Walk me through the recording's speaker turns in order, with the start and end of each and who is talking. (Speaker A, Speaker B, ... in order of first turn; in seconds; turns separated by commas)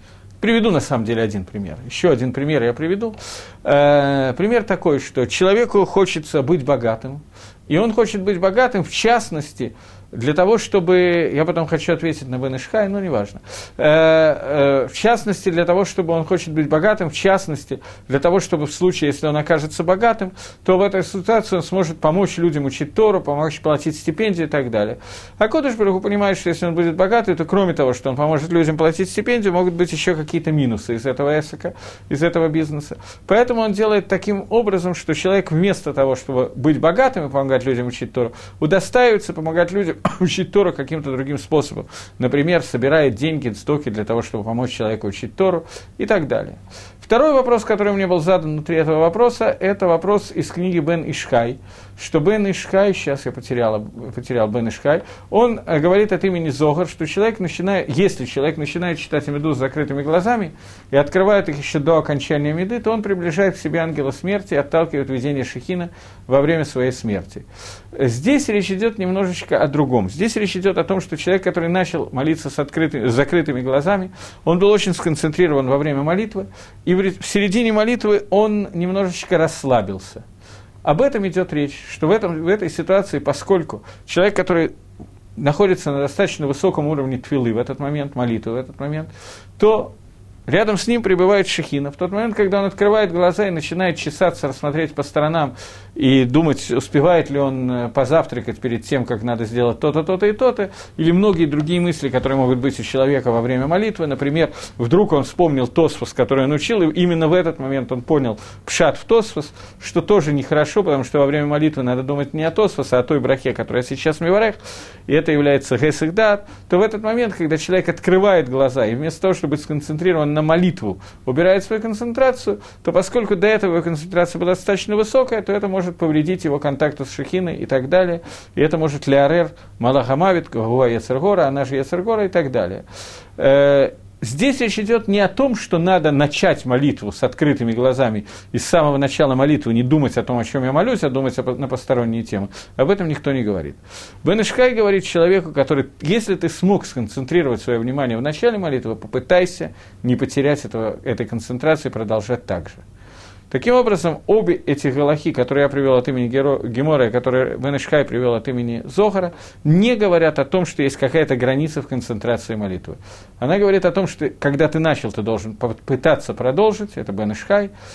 Speaker A: 0.4-80.2, Speaker A: 80.8-84.7, Speaker A: 85.4-90.0, Speaker A: 90.5-132.8, Speaker A: 133.4-152.8, Speaker A: 153.5-167.7